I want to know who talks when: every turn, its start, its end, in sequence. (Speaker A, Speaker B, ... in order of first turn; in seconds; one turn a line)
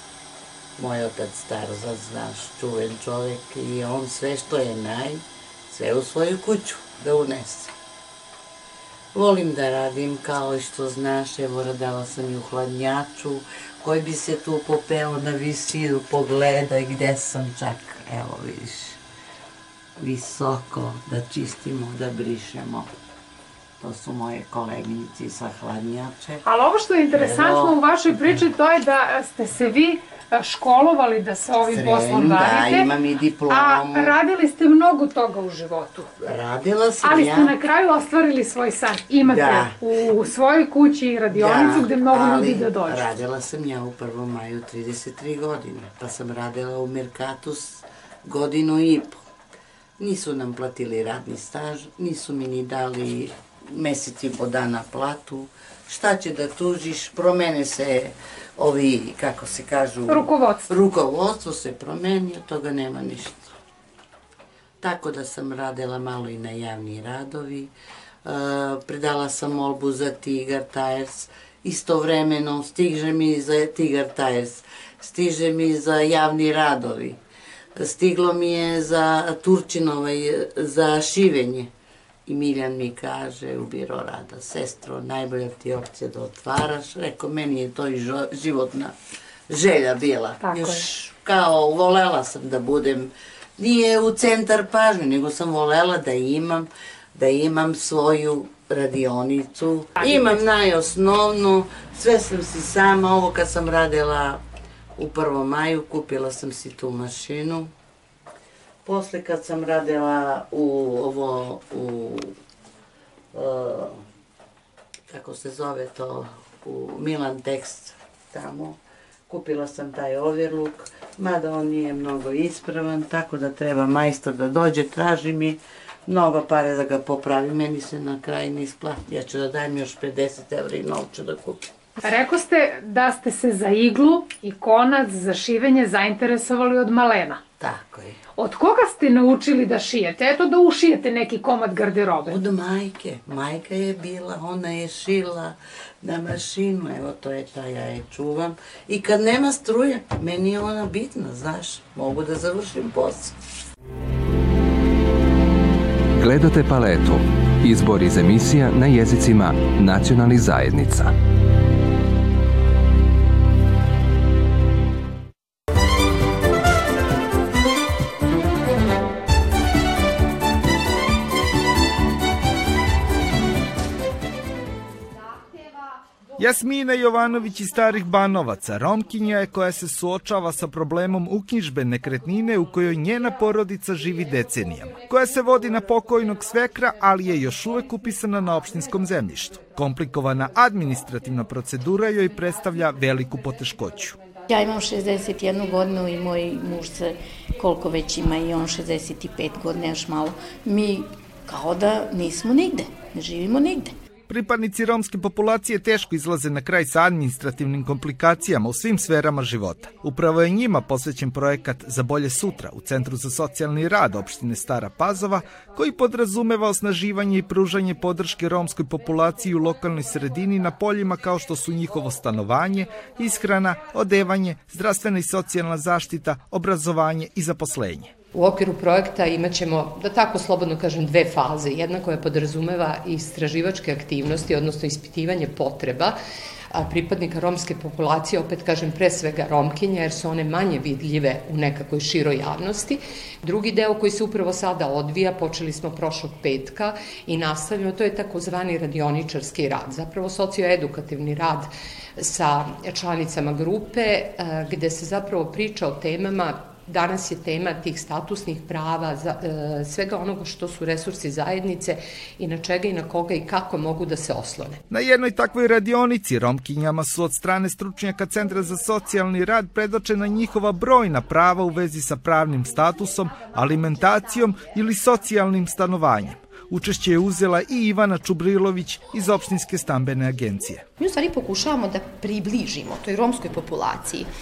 Speaker A: 0.8-7.7
Speaker A: 9.1-19.0
Speaker A: 20.0-22.9
Speaker A: 23.8-26.4
Speaker B: 26.4-32.9
Speaker A: 27.1-27.8
Speaker A: 31.7-34.1
Speaker B: 33.5-36.1
Speaker A: 36.2-37.5
Speaker B: 37.0-43.1
Speaker A: 39.2-39.8
Speaker A: 41.3-49.2
Speaker A: 50.0-63.5
Speaker B: 60.1-60.7
Speaker A: 64.8-67.7
Speaker A: 68.2-77.2
Speaker A: 77.8-81.7
Speaker A: 82.2-88.9
Speaker A: 89.5-104.4
Speaker B: 90.4-90.8
Speaker B: 100.0-100.2
Speaker A: 105.0-107.7
Speaker A: 108.8-112.3
Speaker A: 113.3-114.0
Speaker A: 115.1-131.7
Speaker B: 132.0-137.4
Speaker A: 137.6-138.2
Speaker B: 138.4-142.4
Speaker A: 142.2-153.4
Speaker C: 156.1-161.1
Speaker D: 176.4-194.2
Speaker E: 194.5-203.9
Speaker D: 204.3-228.1
Speaker F: 228.3-236.2
Speaker F: 236.7-264.8
Speaker D: 264.9-280.8
Speaker G: 281.0-284.3